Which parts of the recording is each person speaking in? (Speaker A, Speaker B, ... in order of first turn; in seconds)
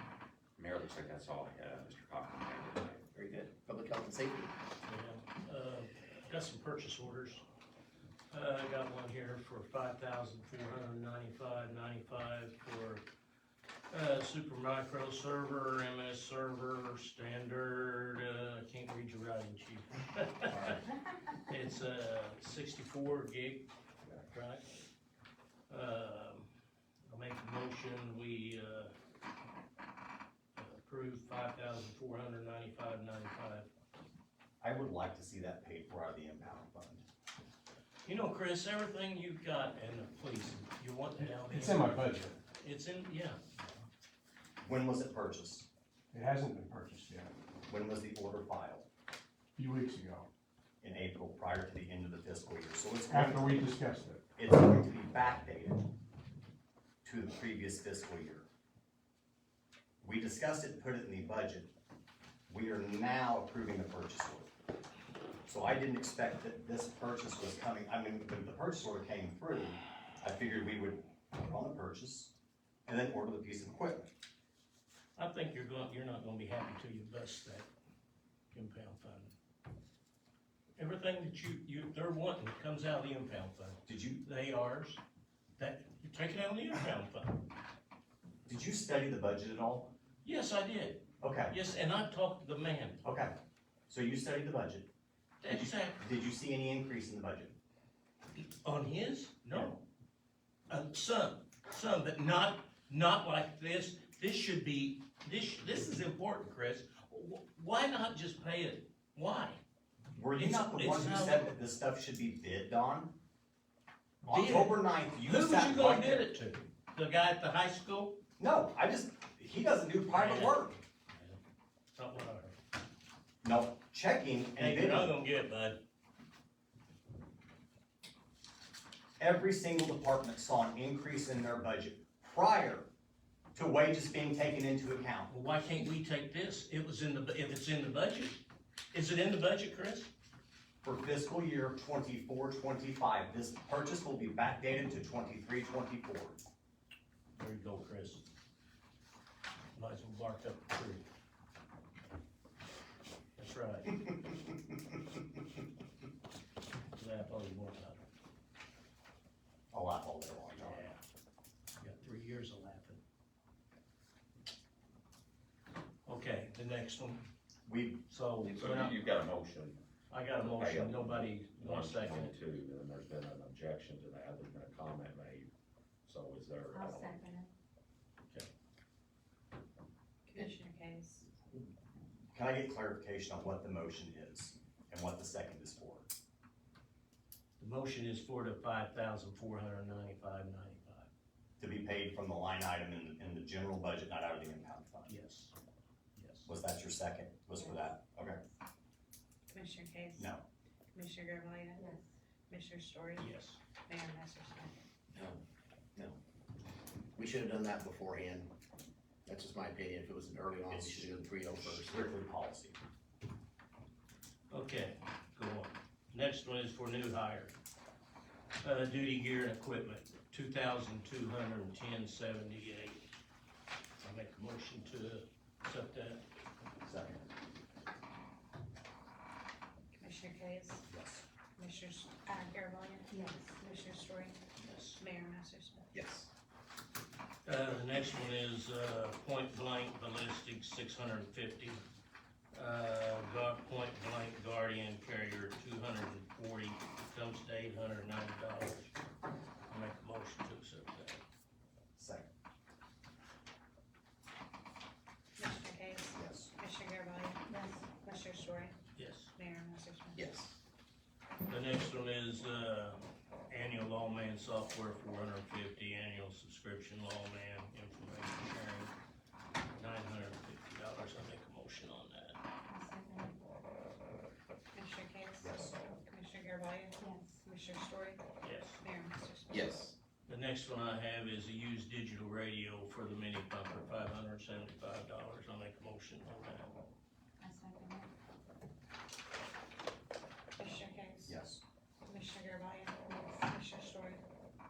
Speaker A: 0.6-3.1, 168.4-169.8, 170.4-175.5, 176.1-177.3
Speaker B: 3.1-4.5, 207.2-208.5, 209.3-212.1, 235.9-236.3, 260.1-260.5, 279.5-279.9
Speaker C: 4.9-7.4, 8.3-13.0, 13.9-20.8, 21.5-23.7, 24.3-24.6, 25.7-26.5, 27.1-28.9, 30.6-33.7, 38.0-43.4, 75.2-77.7, 78.5-79.3, 80.8-85.0, 85.6-87.4, 90.2-93.0, 95.4-96.0, 98.4-99.8, 100.7-109.6, 110.3-111.5, 114.2-118.2, 120.1-120.6, 121.1-121.4, 122.0-122.6, 124.6-125.8, 135.3-140.1, 147.4-148.2, 149.8-151.1, 153.4-154.0, 156.9-158.0, 160.5-161.0, 161.8-163.0, 166.1-167.2, 168.1-169.0, 170.1-172.3, 187.6-191.1, 195.1-195.5, 196.2-196.5, 203.2-203.6, 214.5-217.5, 218.6-223.0, 224.0-226.2, 234.6-235.0, 237.4-241.8, 242.5-248.9, 249.7-251.2, 258.9-259.3, 261.5-268.9, 269.8-272.4, 278.4-278.8, 280.3-286.8
Speaker D: 34.6-37.0, 44.6-45.7, 47.7-48.9, 50.8-53.7, 54.4-55.9, 57.0-58.5, 60.0-61.7, 62.5-64.5, 65.5-72.3, 72.9-74.1, 83.9-84.2, 88.5-89.9, 91.2-91.5, 93.0-93.3, 93.9-94.9, 95.5-97.6, 99.5-99.8, 110.2-113.1, 114.2-116.3, 118.4-120.8, 123.4-125.2, 129.2-132.9, 133.5-135.3, 140.8-146.4, 159.7-160.9, 167.7-168.0, 182.3-186.1, 191.6-195.1, 196.5-198.4, 200.2-200.4, 210.7-212.8, 226.8-227.3, 230.9-231.2, 252.0-252.3, 256.1-256.5, 275.4-275.7, 291.2-291.6
Speaker E: 41.5-42.4, 46.1-47.3, 49.6-50.3, 53.1-54.2
Speaker F: 176.7-177.5, 197.6-197.8, 201.8-202.0, 233.1-233.6, 257.5-257.9, 272.7-273.4, 277.0-277.5, 287.4-288.1, 293.1-293.4
Speaker G: 180.3-181.3, 199.5-200.3, 200.9-202.0, 202.5-203.3, 203.9-204.7, 229.9-230.9, 231.6-234.4, 235.0-235.9, 255.4-258.8, 259.4-260.3, 274.7-278.2, 278.8-279.9, 290.6-291.4, 292.1-294.2